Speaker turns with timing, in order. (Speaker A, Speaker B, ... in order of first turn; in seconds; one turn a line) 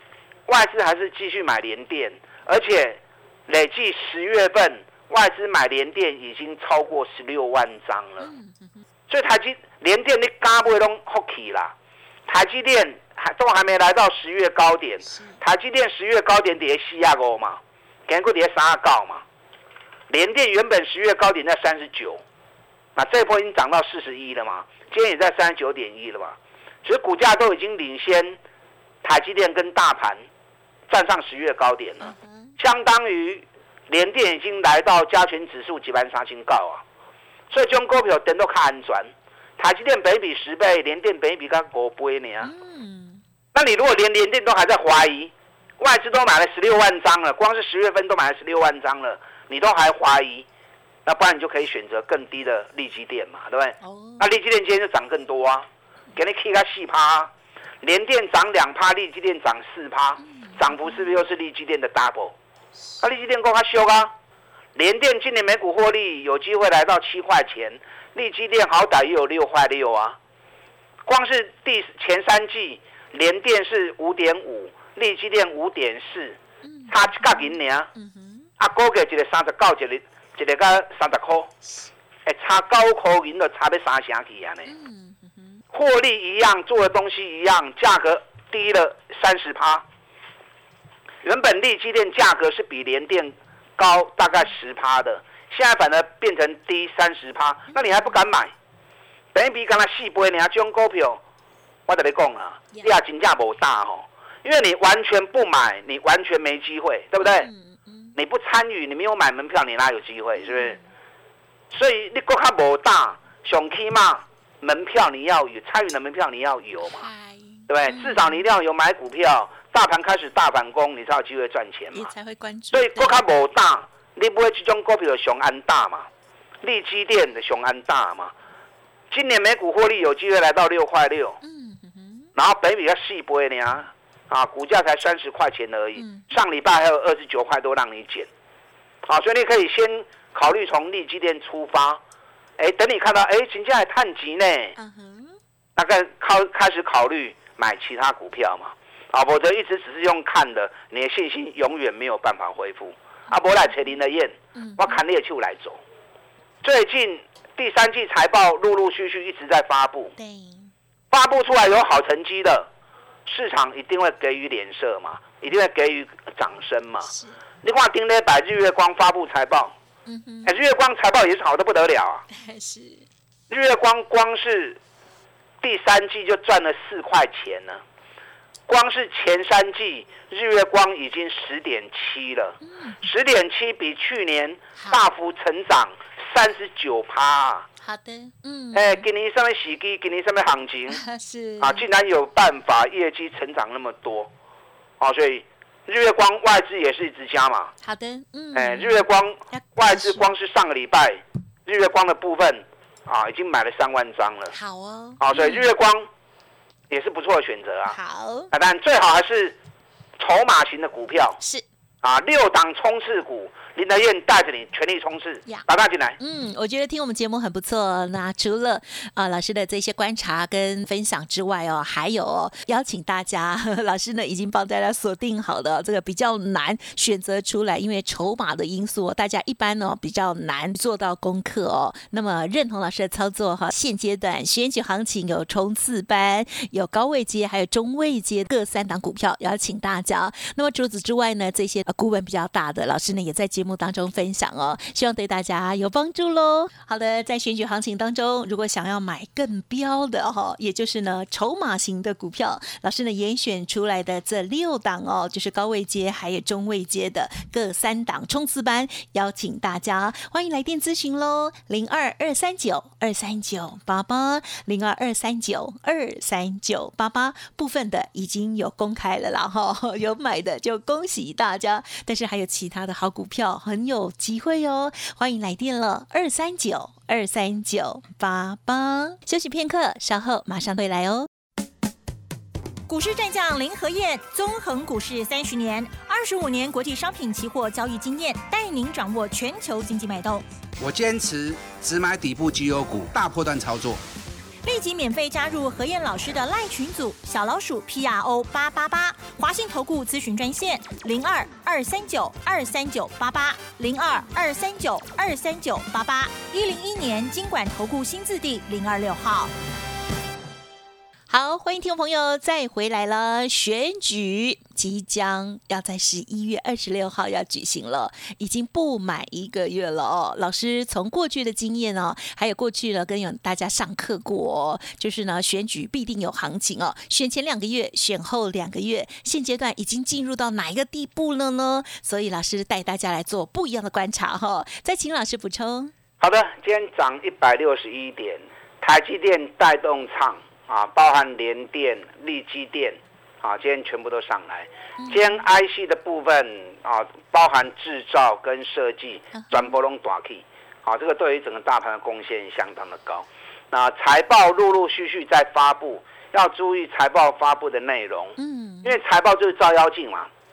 Speaker A: 0.5-8.3
Speaker B: 8.2-8.8
Speaker A: 9.1-11.7
Speaker A: 12.3-19.2
Speaker B: 15.1-15.4
Speaker A: 20.1-22.2
Speaker A: 22.9-28.4
Speaker A: 29.0-30.2
Speaker A: 30.9-36.8
Speaker B: 32.0-32.5
Speaker A: 37.5-42.5
Speaker B: 42.4-43.2
Speaker A: 43.5-50.5
Speaker A: 51.0-57.3
Speaker B: 53.8-54.3
Speaker A: 57.8-62.3
Speaker B: 60.2-61.2
Speaker A: 63.0-64.1
Speaker A: 64.7-70.2
Speaker A: 71.0-77.9
Speaker B: 76.6-78.5
Speaker A: 78.6-81.5
Speaker A: 82.2-84.7
Speaker B: 84.7-85.6
Speaker A: 85.7-89.8
Speaker A: 91.2-98.5
Speaker A: 99.3-101.2
Speaker A: 101.9-107.5
Speaker B: 107.2-108.2
Speaker A: 108.2-110.8
Speaker B: 110.4-110.8
Speaker A: 111.7-117.1
Speaker B: 116.9-118.4
Speaker A: 117.7-122.1
Speaker B: 121.9-123.2
Speaker A: 122.7-126.1
Speaker A: 126.6-128.3
Speaker A: 129.1-131.4
Speaker B: 131.4-132.3
Speaker A: 132.3-138.3
Speaker B: 135.9-136.3
Speaker A: 139.0-142.0
Speaker A: 142.6-144.8
Speaker B: 144.8-145.4
Speaker A: 145.8-155.8
Speaker B: 154.5-155.0
Speaker A: 156.6-160.1
Speaker B: 160.2-160.7
Speaker A: 161.1-162.7
Speaker A: 163.2-167.1
Speaker B: 167.1-167.4
Speaker A: 167.6-169.7
Speaker B: 170.1-170.5
Speaker A: 170.4-172.2
Speaker B: 172.3-173.1
Speaker A: 173.5-174.8
Speaker A: 175.6-177.8
Speaker A: 178.7-187.7
Speaker B: 182.6-183.0
Speaker B: 187.8-189.0
Speaker A: 188.7-191.0
Speaker B: 190.9-191.9
Speaker A: 191.6-194.3
Speaker A: 195.0-197.7
Speaker B: 197.8-200.3
Speaker A: 198.5-204.5
Speaker B: 204.5-205.7
Speaker A: 205.2-206.1
Speaker A: 206.9-207.9
Speaker B: 207.9-208.5
Speaker A: 208.5-209.6
Speaker A: 210.2-211.4
Speaker B: 211.4-211.6
Speaker A: 212.0-216.2
Speaker B: 216.2-281.3
Speaker C: 282.9-290.4
Speaker D: 290.8-294.0
Speaker C: 294.6-309.5
Speaker B: 311.3-335.9
Speaker A: 336.2-360.3
Speaker B: 345.0-345.4
Speaker B: 349.3-349.8
Speaker B: 358.4-359.0